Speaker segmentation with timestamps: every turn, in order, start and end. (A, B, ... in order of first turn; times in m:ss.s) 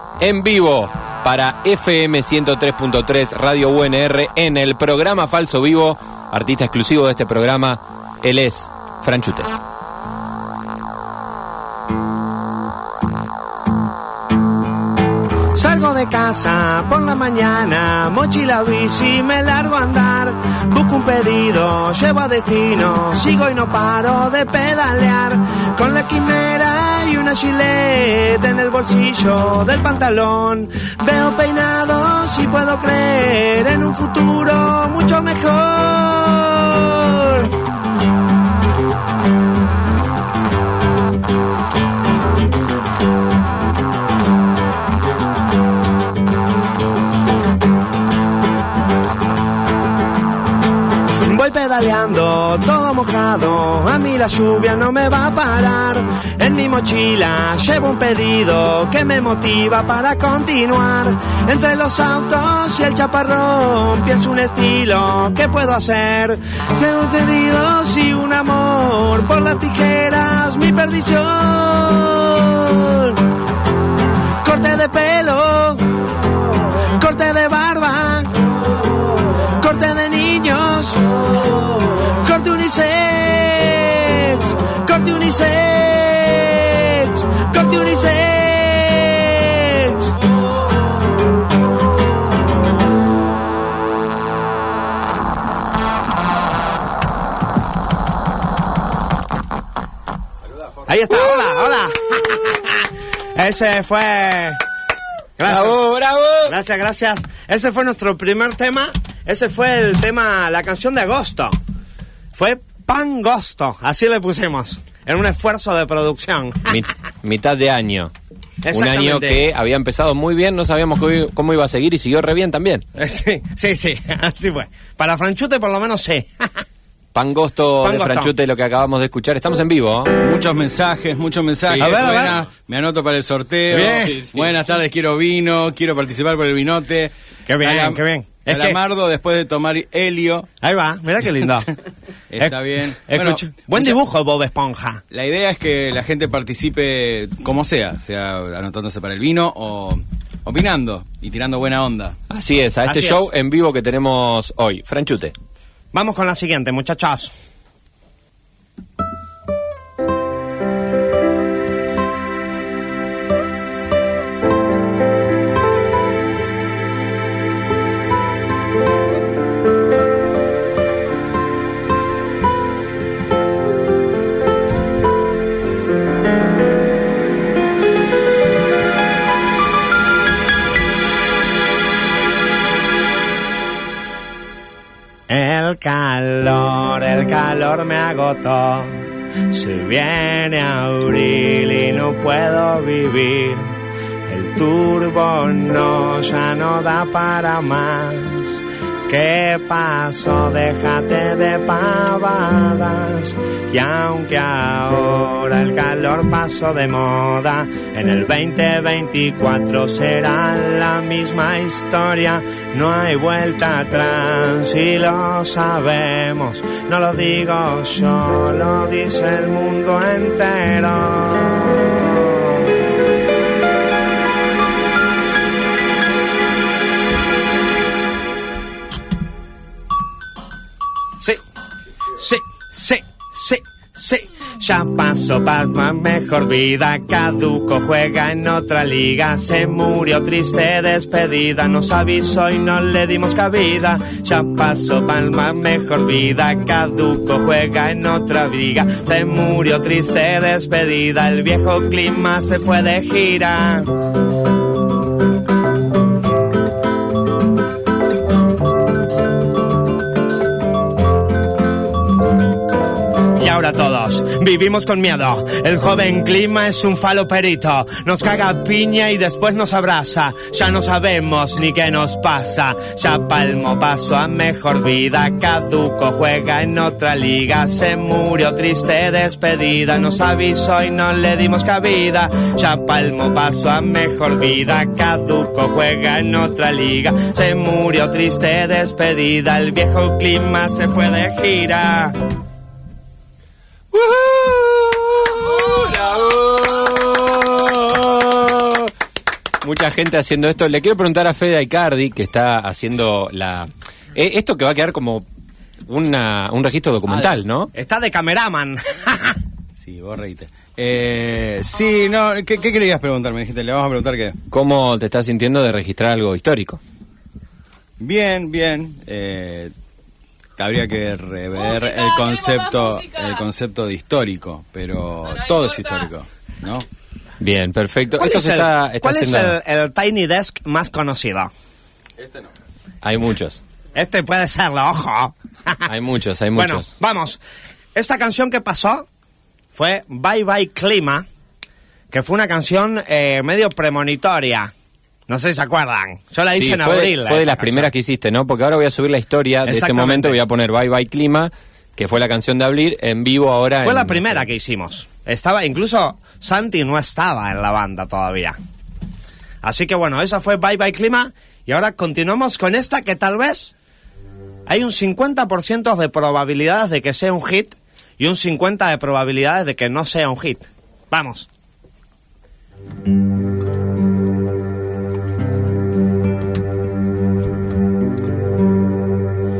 0:00.2-0:09.5 A
0:15.5-0:37.5 B
0:51.2-1:13.2 B
1:14.4-1:15.8 B
1:16.9-1:18.3 B
1:19.6-1:30.1 B
1:40.8-1:44.6 B
1:45.4-1:45.8 B
1:45.5-1:46.5 A
1:46.5-1:51.5 B
1:52.3-1:56.8 B
1:56.7-1:58.1 A
1:58.6-1:59.4 B
1:58.7-2:02.8 A
2:03.0-2:06.6 B
2:07.1-2:10.1 A
2:07.8-2:08.3 B
2:10.2-2:20.5 C
2:11.8-2:12.4 B
2:13.7-2:14.2 B
2:17.5-2:18.8 B
2:20.6-2:21.7 B
2:22.3-2:23.9 C
2:22.4-2:25.0 B
2:25.1-2:32.2 C
2:32.3-2:35.3 A
2:32.8-2:33.2 B
2:35.9-2:37.3 B
3:05.3-3:13.7 B
3:14.3-3:42.6 B
3:52.1-4:13.9 B
4:23.4-4:52.1 B
4:53.9-4:58.9 A
4:59.6-5:05.2 A
5:05.8-5:07.7 A
5:07.1-5:07.4 C
5:07.7-5:09.4 B
5:09.8-5:14.4 C
5:14.5-5:16.8 A
5:18.0-5:19.7 C
5:20.6-5:26.8 C
5:27.4-5:29.6 A
5:28.2-5:31.5 B
5:33.0-5:33.6 A
5:33.9-5:35.9 B
5:35.9-5:36.9 A
5:36.5-5:37.4 B
5:37.9-5:39.1 B
5:39.7-5:41.2 B
5:42.1-5:44.7 B
5:45.3-5:47.9 B
5:46.6-5:54.4 A
5:49.6-5:50.4 B
5:53.8-5:58.6 B
5:59.6-6:03.7 B
6:04.7-6:11.5 B